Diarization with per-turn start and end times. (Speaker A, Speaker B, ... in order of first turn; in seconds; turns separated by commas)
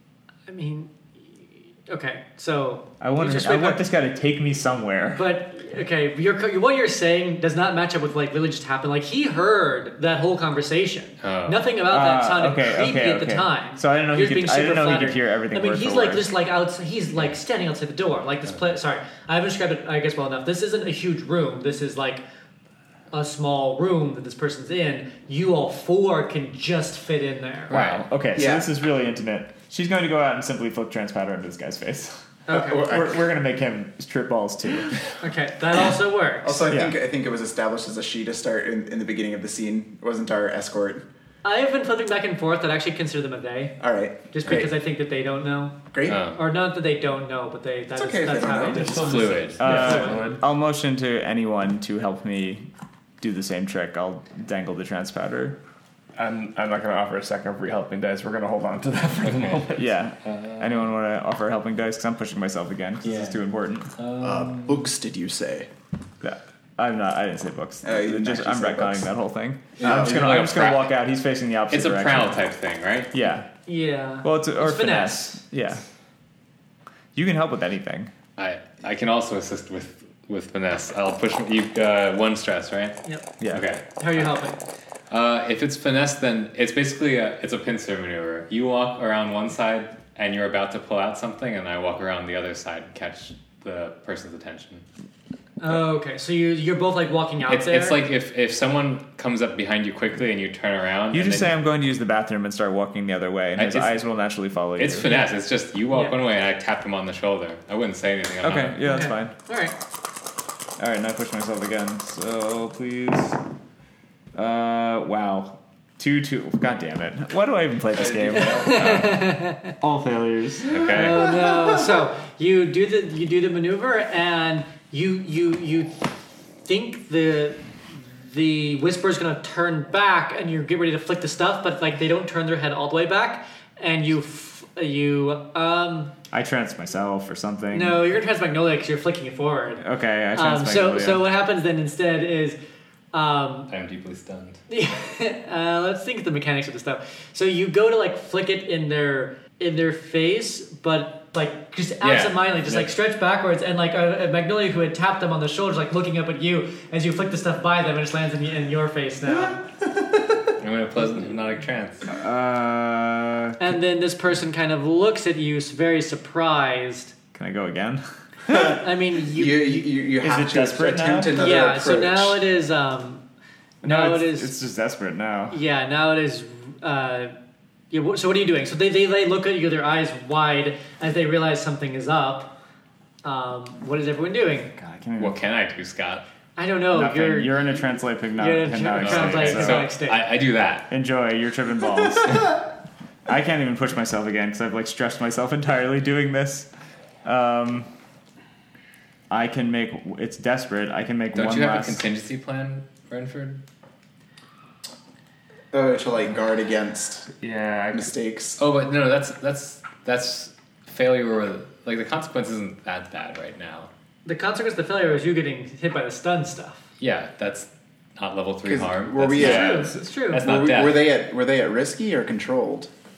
Speaker A: 0.5-3.9, Speaker B: 3.0-5.4, Speaker A: 5.2-22.2, Speaker C: 11.2-11.7, Speaker B: 11.8-16.3, Speaker A: 23.1-27.8, Speaker C: 27.7-28.0, Speaker B: 27.7-35.0, Speaker D: 28.4-28.7, Speaker A: 32.5-33.0, Speaker D: 32.5-33.2, Speaker A: 35.2-36.6, Speaker D: 36.4-41.1, Speaker B: 36.7-37.0, Speaker A: 41.4-43.8, Speaker D: 43.8-44.7, Speaker A: 44.3-50.4, Speaker D: 45.9-46.2, Speaker C: 46.0-46.4, Speaker D: 47.9-49.5, Speaker E: 48.7-50.4, Speaker C: 49.0-49.6, Speaker B: 49.6-52.7, Speaker B: 53.2-55.6, Speaker E: 56.2-59.9, Speaker C: 59.3-59.6, Speaker B: 59.7-64.0, Speaker C: 60.3-60.7, Speaker C: 63.0-63.4, Speaker C: 64.0-64.8, Speaker D: 64.2-65.7, Speaker B: 66.2-72.4, Speaker D: 67.8-69.1, Speaker C: 69.8-71.0, Speaker D: 69.8-70.4, Speaker C: 71.7-73.1, Speaker B: 73.1-73.5, Speaker A: 73.7-75.4, Speaker B: 74.2-75.8, Speaker B: 77.1-78.1, Speaker C: 78.4-84.2, Speaker B: 83.4-83.7, Speaker A: 84.0-84.6, Speaker C: 85.1-94.9, Speaker A: 95.6-98.0, Speaker C: 97.5-101.5, Speaker B: 101.1-105.1, Speaker C: 103.6-103.9, Speaker C: 104.8-108.8, Speaker B: 108.4-109.3, Speaker A: 108.8-109.8, Speaker B: 110.8-113.4, Speaker B: 114.3-121.2, Speaker D: 118.0-119.0, Speaker A: 118.5-119.7, Speaker C: 120.7-121.3, Speaker A: 120.9-126.1, Speaker A: 126.7-136.2, Speaker B: 136.3-138.0, Speaker A: 137.7-142.6, Speaker B: 139.8-141.3, Speaker A: 143.1-143.7, Speaker C: 143.7-144.6, Speaker A: 144.7-159.7, Speaker C: 152.0-152.9, Speaker C: 160.6-162.1, Speaker B: 162.1-163.8, Speaker A: 163.6-167.2, Speaker B: 167.3-168.8, Speaker A: 168.5-169.9, Speaker D: 169.2-172.4, Speaker B: 170.2-171.4, Speaker A: 171.3-173.2, Speaker A: 173.8-174.6, Speaker B: 173.8-175.6, Speaker A: 175.5-177.3, Speaker A: 177.9-182.6, Speaker A: 183.2-184.7, Speaker B: 184.8-185.4, Speaker C: 185.2-186.2, Speaker A: 186.6-187.6, Speaker B: 186.9-189.9, Speaker A: 188.4-190.2, Speaker C: 189.0-190.9, Speaker B: 190.9-192.7, Speaker B: 193.3-196.7, Speaker B: 197.2-197.9, Speaker B: 199.3-202.1, Speaker C: 201.3-203.6, Speaker D: 205.7-207.3, Speaker E: 207.4-208.1, Speaker D: 207.9-208.6, Speaker C: 208.6-213.9, Speaker A: 214.2-216.9, Speaker C: 217.0-221.1, Speaker D: 218.7-222.9, Speaker A: 219.4-220.4, Speaker E: 219.4-220.0